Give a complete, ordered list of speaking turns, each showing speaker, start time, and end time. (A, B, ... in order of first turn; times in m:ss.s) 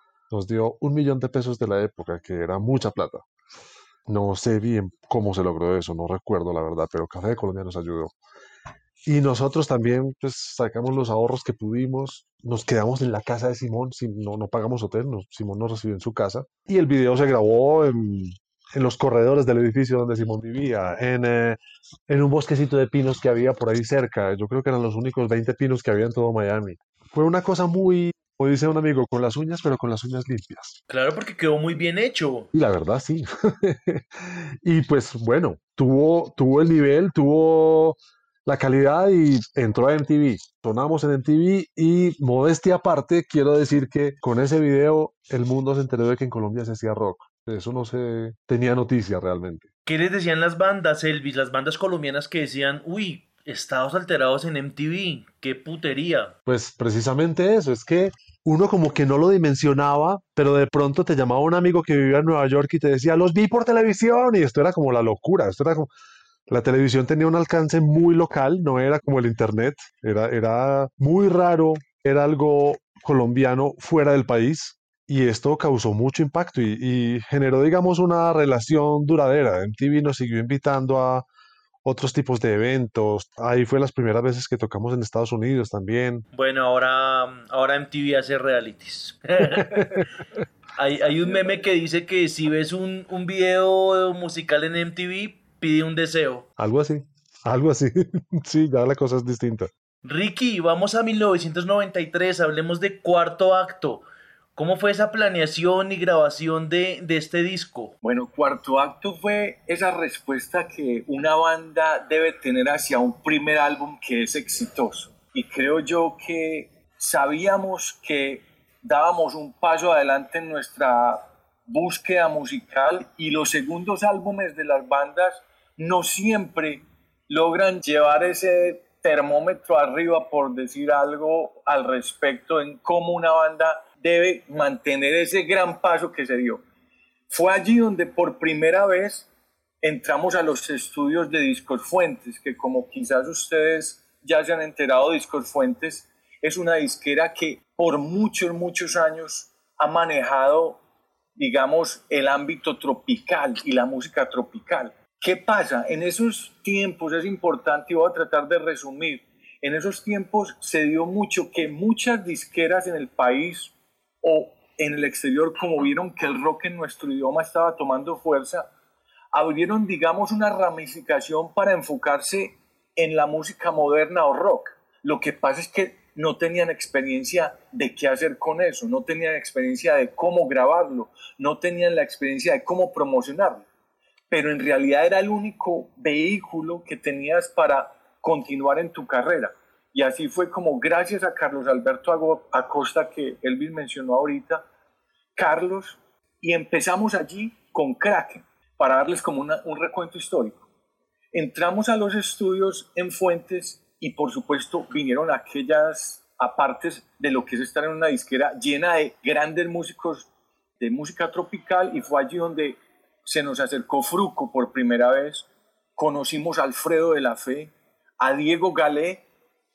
0:00.3-0:03.2 A
0:04.1-0:08.1 A
0:09.1-0:30.8 A
0:30.9-0:32.5 B
0:32.5-0:49.7 A
0:49.9-0:56.3 B
0:56.5-1:05.9 A
1:06.5-1:21.3 A
1:21.8-1:26.2 A
1:26.3-1:30.1 B
1:29.6-1:30.0 A
1:30.8-1:36.5 B
1:36.6-1:39.7 A
1:40.0-1:44.0 B
1:44.6-1:47.9 B
1:48.0-2:16.6 C
2:17.3-2:19.3 C
2:19.8-2:30.8 C
2:31.4-2:48.7 C
2:49.3-3:03.7 C
3:04.3-3:14.7 C
3:15.4-3:20.6 C
3:21.3-3:30.3 C
3:30.8-3:39.2 C